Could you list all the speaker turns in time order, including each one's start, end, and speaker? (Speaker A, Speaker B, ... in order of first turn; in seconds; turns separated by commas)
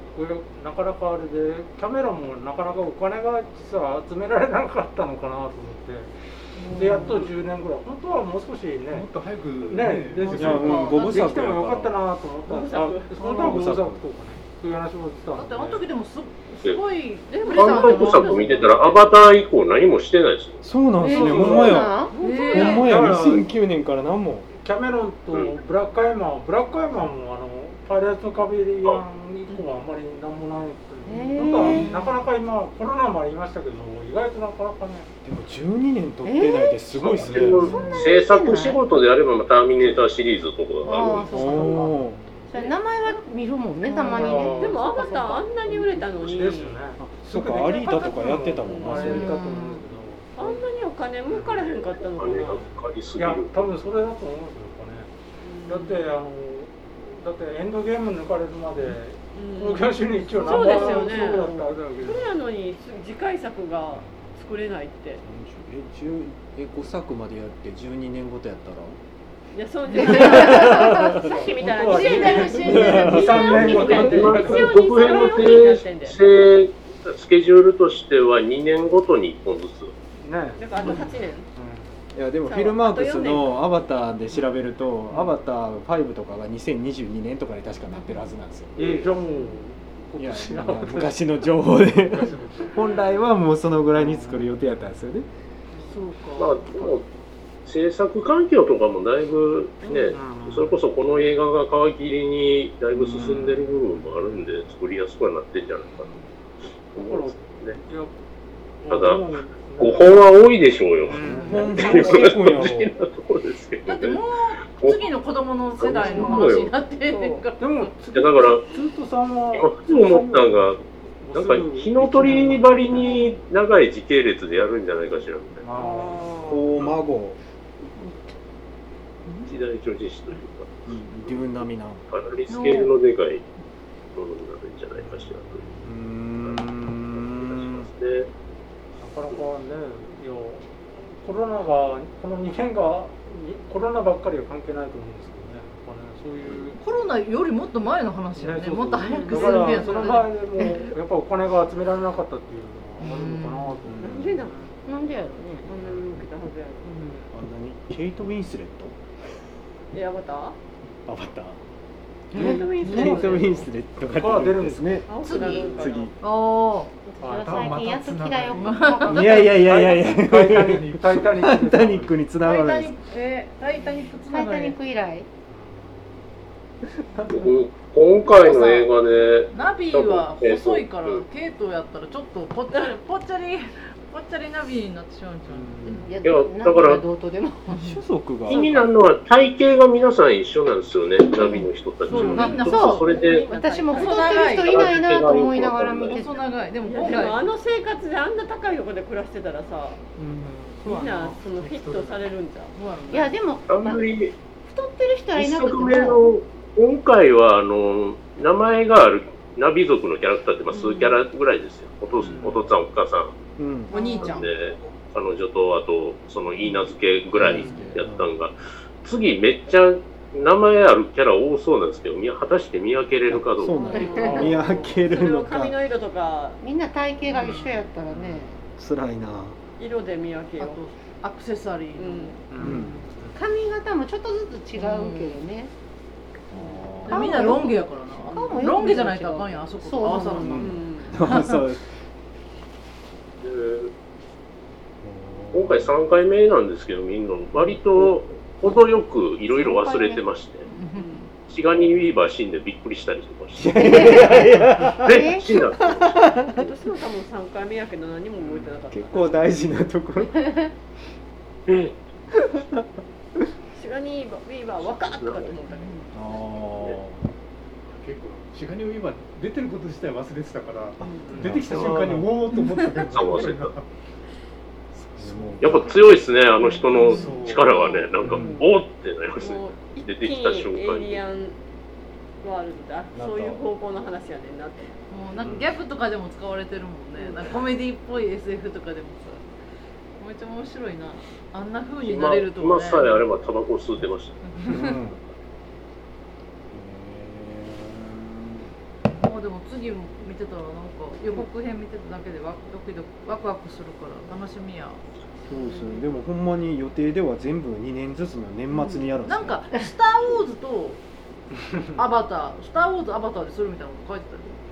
Speaker A: 0.1-6.1, Speaker A: 6.6-9.1, Speaker B: 8.9-10.8, Speaker A: 9.6-15.8, Speaker C: 10.2-11.4, Speaker D: 10.3-11.9, Speaker E: 12.4-13.5, Speaker D: 13.2-14.0, Speaker C: 15.3-18.7, Speaker E: 17.3-19.0, Speaker F: 17.5-20.6, Speaker D: 20.6-22.0, Speaker G: 21.0-22.8, Speaker A: 21.1-21.9, Speaker E: 22.1-22.9, Speaker C: 22.2-23.0, Speaker D: 22.5-24.5, Speaker A: 22.7-23.5, Speaker A: 24.6-35.1, Speaker G: 31.0-32.2, Speaker D: 35.2-37.8, Speaker G: 36.2-36.9, Speaker F: 36.9-41.6, Speaker A: 37.1-38.0, Speaker G: 37.5-38.8, Speaker G: 40.8-42.0, Speaker D: 41.3-42.2, Speaker A: 41.9-42.5, Speaker G: 42.5-46.0, Speaker C: 43.9-44.3, Speaker A: 43.9-45.2, Speaker E: 44.3-46.8, Speaker A: 46.1-50.6, Speaker D: 47.0-49.5, Speaker E: 48.6-49.2, Speaker G: 49.0-49.8, Speaker E: 50.3-52.6, Speaker A: 51.3-51.7, Speaker F: 51.6-53.7, Speaker A: 52.3-55.1, Speaker E: 55.4-56.1, Speaker A: 55.7-62.3, Speaker E: 59.3-65.2, Speaker A: 63.9-64.3, Speaker D: 65.2-69.0, Speaker E: 69.5-76.2, Speaker C: 69.9-70.3, Speaker D: 70.0-71.2, Speaker G: 70.1-71.1, Speaker A: 71.1-75.2, Speaker C: 71.9-73.7, Speaker D: 72.6-74.4, Speaker F: 73.5-79.9, Speaker A: 80.2-82.0, Speaker E: 80.6-81.5, Speaker D: 82.1-88.8, Speaker E: 82.4-83.7, Speaker A: 85.1-85.4, Speaker A: 88.8-91.2, Speaker F: 88.8-89.1, Speaker E: 89.3-89.6, Speaker D: 90.2-95.2, Speaker A: 92.1-92.7, Speaker B: 92.1-92.7, Speaker A: 94.0-94.6, Speaker E: 95.8-96.6, Speaker F: 96.4-97.0, Speaker F: 97.6-106.1, Speaker E: 99.8-100.2, Speaker A: 100.1-100.8, Speaker D: 102.9-103.6, Speaker A: 103.7-104.6, Speaker F: 106.9-107.8, Speaker A: 107.0-108.1, Speaker A: 108.8-110.2, Speaker F: 108.9-109.3, Speaker F: 109.8-114.2, Speaker A: 111.0-112.5, Speaker C: 111.2-112.0, Speaker D: 111.4-112.9, Speaker C: 113.8-117.9, Speaker F: 115.8-116.7, Speaker E: 116.0-117.5, Speaker A: 117.6-123.2, Speaker F: 118.1-118.6, Speaker F: 119.5-120.8, Speaker F: 121.3-125.7, Speaker A: 125.6-126.3, Speaker E: 125.7-126.7, Speaker D: 126.4-127.4, Speaker F: 129.4-130.7, Speaker D: 130.8-132.0, Speaker F: 132.1-133.4, Speaker C: 132.5-132.9, Speaker F: 134.1-135.6, Speaker A: 135.0-135.9, Speaker D: 135.8-137.9, Speaker F: 136.4-138.3, Speaker A: 139.0-140.7, Speaker A: 141.2-146.8, Speaker C: 146.8-150.3, Speaker A: 148.3-154.7, Speaker E: 149.1-150.1, Speaker C: 153.0-153.8, Speaker D: 153.9-154.4, Speaker E: 154.0-154.7, Speaker G: 154.9-155.7, Speaker E: 155.5-157.2, Speaker A: 155.7-156.1, Speaker D: 157.3-158.9, Speaker E: 159.9-160.6, Speaker D: 161.1-161.6, Speaker E: 162.3-163.6, Speaker D: 162.3-166.1, Speaker A: 162.4-163.5, Speaker A: 164.1-165.0, Speaker E: 165.1-166.1, Speaker G: 165.2-165.8, Speaker C: 165.3-165.6, Speaker C: 166.2-166.9, Speaker G: 167.0-169.6, Speaker A: 167.2-167.7, Speaker B: 167.3-169.4, Speaker C: 168.5-169.3, Speaker D: 169.1-172.9, Speaker A: 169.4-172.2, Speaker B: 170.7-171.0, Speaker C: 172.4-174.8, Speaker G: 174.3-175.3, Speaker A: 175.5-176.2, Speaker F: 177.2-181.2, Speaker C: 179.5-186.1, Speaker A: 185.5-186.0, Speaker G: 186.0-187.8, Speaker F: 186.2-187.0, Speaker C: 187.7-188.0, Speaker D: 187.7-188.7, Speaker F: 188.5-193.5, Speaker E: 188.5-188.9, Speaker G: 191.4-191.6, Speaker C: 192.1-193.2, Speaker A: 192.2-192.6, Speaker E: 192.2-194.8, Speaker G: 192.3-196.5, Speaker C: 193.9-194.9, Speaker F: 194.5-196.2, Speaker C: 196.0-197.5, Speaker E: 196.8-200.0, Speaker B: 200.2-200.8, Speaker C: 200.8-201.4, Speaker E: 200.8-202.7, Speaker B: 201.5-202.2, Speaker C: 202.7-203.4, Speaker G: 203.1-204.0, Speaker F: 203.7-204.3, Speaker G: 204.7-206.2, Speaker F: 205.3-213.3, Speaker A: 212.2-212.8, Speaker D: 213.6-213.9, Speaker C: 213.9-214.5, Speaker E: 213.9-214.4, Speaker F: 214.2-224.3, Speaker D: 217.3-218.3, Speaker A: 217.4-217.8, Speaker D: 223.3-225.8, Speaker E: 223.9-226.6, Speaker G: 223.9-224.5, Speaker A: 224.2-224.5, Speaker G: 226.6-228.6, Speaker A: 227.4-228.4, Speaker D: 228.8-229.6, Speaker E: 229.8-230.8, Speaker C: 230.6-233.0, Speaker E: 231.9-232.5, Speaker A: 232.5-233.4, Speaker D: 232.6-232.9, Speaker G: 233.3-235.7, Speaker E: 234.8-235.4, Speaker D: 236.5-237.6, Speaker E: 236.6-236.8, Speaker G: 237.1-240.8, Speaker C: 237.1-241.6, Speaker E: 238.8-239.1, Speaker D: 240.4-241.8, Speaker E: 240.5-241.2, Speaker F: 243.4-243.9, Speaker D: 245.0-245.9, Speaker F: 245.5-250.7, Speaker G: 249.5-250.2, Speaker C: 250.7-251.3, Speaker E: 250.9-251.2, Speaker F: 251.5-256.3, Speaker D: 253.5-256.7, Speaker G: 253.8-254.4, Speaker G: 255.1-255.4, Speaker E: 256.5-259.6, Speaker D: 258.7-260.7, Speaker F: 261.7-262.0, Speaker D: 262.3-262.8, Speaker E: 263.7-266.1, Speaker F: 264.8-265.6, Speaker C: 265.8-266.0, Speaker D: 266.1-267.3, Speaker B: 267.9-273.8, Speaker D: 271.0-272.4, Speaker A: 271.3-271.6, Speaker F: 271.7-272.0, Speaker C: 272.6-272.9, Speaker F: 273.0-273.7, Speaker D: 275.0-276.1, Speaker B: 275.2-275.7, Speaker F: 275.6-281.2, Speaker C: 277.0-277.3, Speaker E: 277.0-278.1, Speaker B: 277.1-277.8, Speaker D: 278.2-278.6, Speaker A: 278.2-278.5, Speaker E: 279.4-281.6, Speaker E: 282.4-284.9, Speaker D: 283.1-283.6, Speaker C: 285.1-289.4, Speaker A: 285.4-285.7, Speaker C: 290.2-293.1, Speaker F: 292.0-294.4, Speaker C: 294.5-294.9, Speaker D: 294.6-295.2, Speaker D: 296.7-298.7, Speaker C: 299.1-305.0, Speaker D: 305.5-309.6, Speaker E: 305.5-306.0, Speaker G: 308.7-309.0, Speaker C: 309.2-311.0, Speaker A: 311.6-311.9, Speaker C: 311.9-314.5